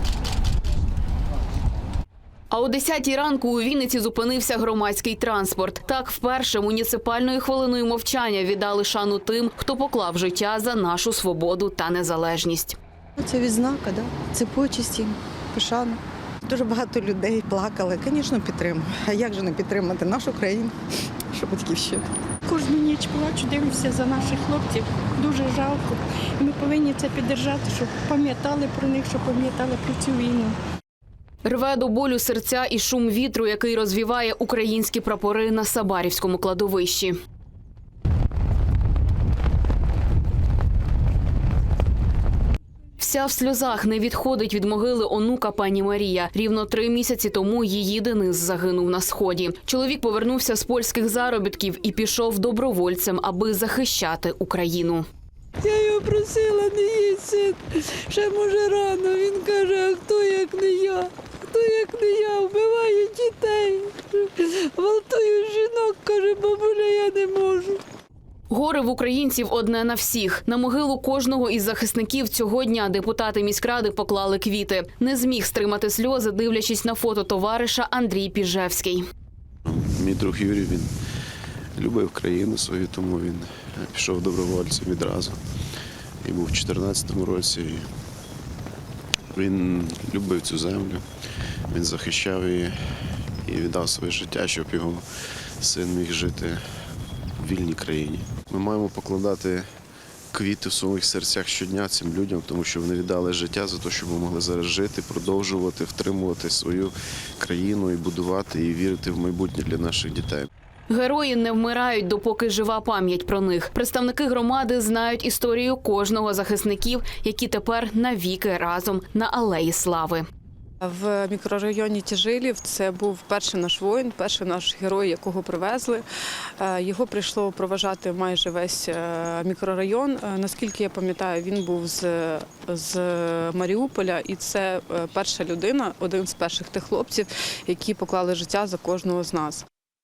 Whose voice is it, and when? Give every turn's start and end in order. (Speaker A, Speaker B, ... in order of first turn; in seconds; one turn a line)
Speaker A: 2.5-12.8
Speaker B: 13.2-20.7
Speaker B: 21.3-22.1
Speaker C: 22.5-30.6
Speaker D: 23.6-24.0
Speaker D: 24.8-25.1
Speaker A: 31.4-37.2
Speaker A: 43.0-55.1
Speaker D: 55.6-67.8
Speaker A: 68.5-79.0
Speaker E: 79.7-80.9
Speaker E: 81.8-85.4
Speaker E: 86.2-87.9
Speaker E: 89.3-91.0
Speaker E: 91.7-92.8
Speaker E: 93.4-95.0
Speaker E: 95.6-96.6
Speaker E: 97.4-99.7
Speaker E: 100.3-110.5
Speaker A: 110.9-120.2
Speaker F: 120.8-126.0
Speaker F: 126.6-139.7